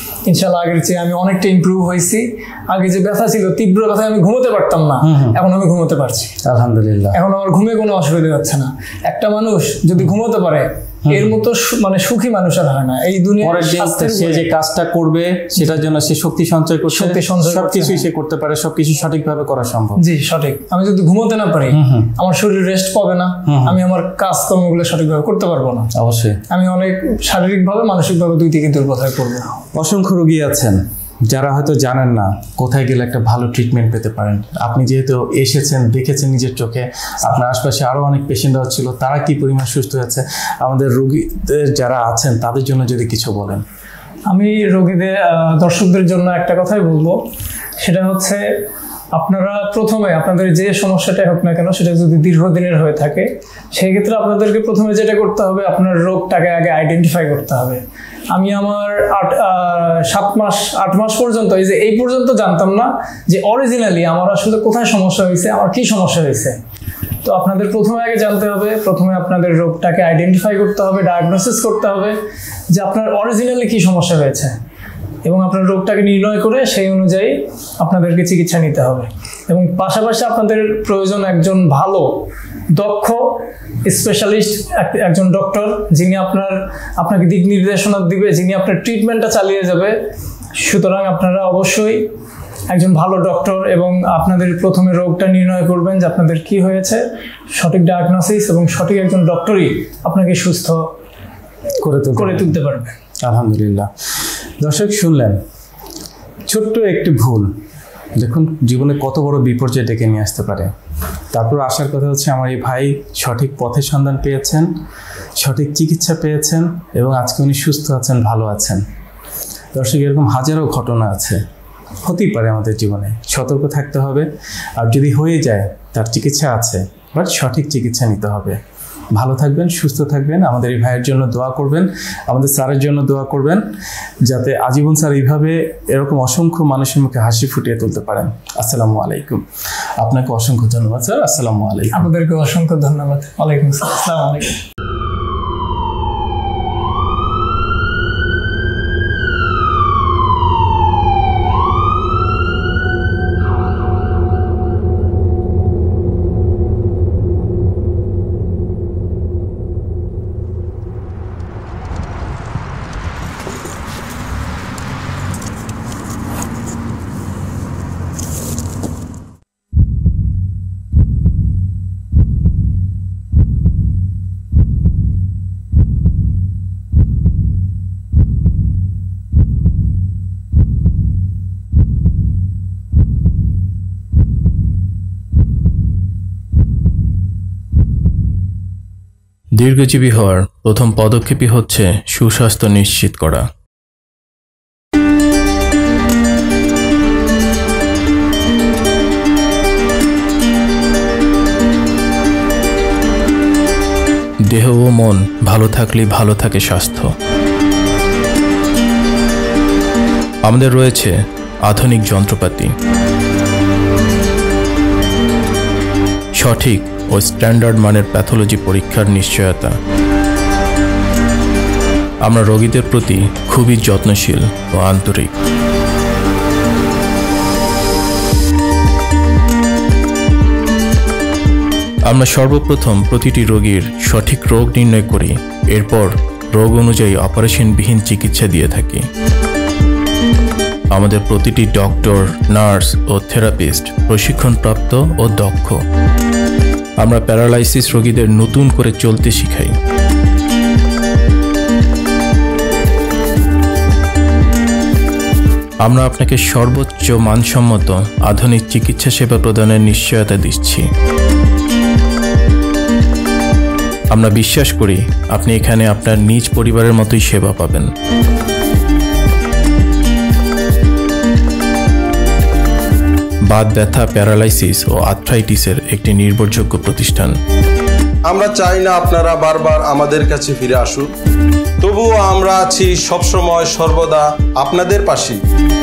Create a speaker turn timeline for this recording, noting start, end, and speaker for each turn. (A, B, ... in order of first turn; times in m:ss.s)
0:00.2-0:06.3 A
0:05.0-0:05.4 B
0:06.4-0:07.2 B
0:07.1-0:14.5 A
0:11.0-0:11.3 B
0:13.4-0:20.0 B
0:16.8-0:18.0 A
0:20.0-0:25.9 A
0:21.7-0:22.2 B
0:23.4-0:23.8 B
0:25.9-0:26.4 B
0:26.5-0:29.5 A
0:29.6-0:43.6 B
0:44.3-0:47.2 A
0:47.8-1:06.6 A
1:07.2-1:12.2 A
1:12.7-1:14.6 A
1:15.2-1:30.0 A
1:30.5-1:32.1 A
1:32.7-1:40.8 A
1:41.8-1:42.6 B
1:42.1-1:43.0 A
1:43.2-1:43.9 B
1:44.6-1:45.4 B
1:46.5-1:47.5 B
1:48.2-1:50.7 B
1:51.3-1:54.7 B
1:55.4-1:58.8 B
1:59.7-2:01.4 B
2:02.0-2:08.6 B
2:09.1-2:13.6 B
2:14.2-2:19.4 B
2:20.0-2:22.1 B
2:21.9-2:24.6 A
3:09.6-3:13.4 B
3:24.5-3:27.1 B
3:30.4-3:32.7 B
3:36.4-3:39.8 B
3:42.2-3:45.3 B
3:52.0-3:59.0 B
4:00.9-4:05.8 B
4:07.0-4:09.7 B
4:15.8-4:20.8 B
4:24.1-4:27.9 B
4:33.5-4:37.3 B
4:38.3-4:40.0 C
4:42.8-4:45.2 C